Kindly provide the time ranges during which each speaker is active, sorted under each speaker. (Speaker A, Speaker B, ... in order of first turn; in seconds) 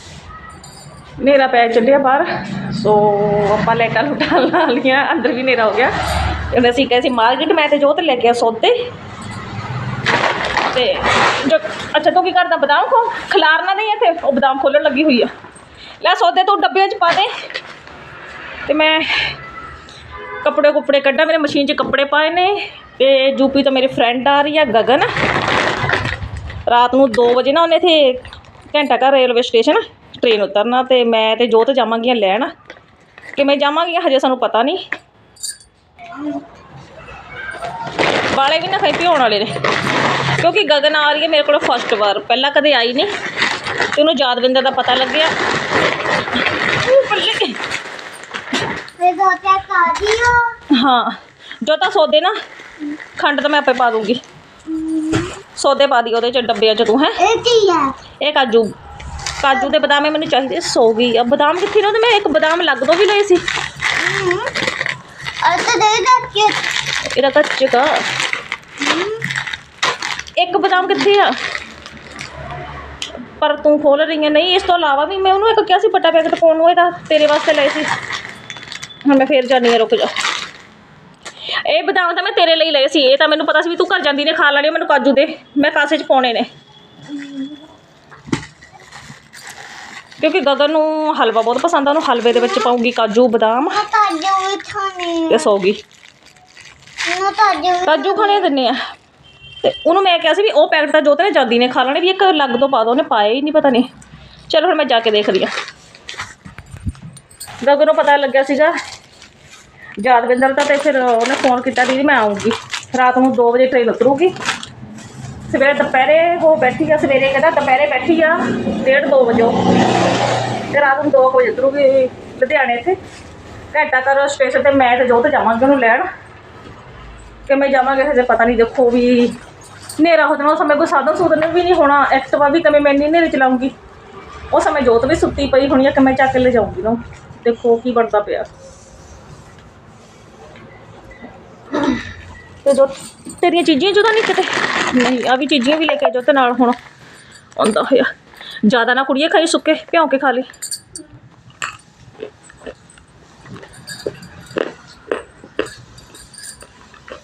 Speaker A: 1.2-5.9, 6.5-8.8, 10.7-15.3, 16.0-17.3, 18.7-19.4, 20.4-25.1, 26.7-32.5, 33.4-34.8, 38.3-39.5, 40.4-43.1, 44.0-45.3, 46.8-47.6, 50.7-52.4, 53.2-54.2, 55.5-57.2, 58.2-58.7, 59.4-63.4, 67.1-68.0, 70.4-71.4, 73.3-77.9, 79.0-80.2, 81.7-86.5, 90.2-93.8, 95.3-95.8, 97.8-98.8, 99.6-103.9, 104.5-105.5, 107.6-108.7, 110.0-114.3, 115.5-119.6, 120.7-123.0, 123.7-126.1, 127.5-129.3, 130.0-133.7, 134.5-138.5, 142.6-146.8, 147.6-148.1, 148.7-150.5
Speaker B: 49.0-50.5, 54.7-55.3, 57.2-57.9, 64.0-64.5, 65.4-66.6, 68.8-69.2, 87.2-87.5, 92.3-92.7, 93.7-95.5, 97.0-98.5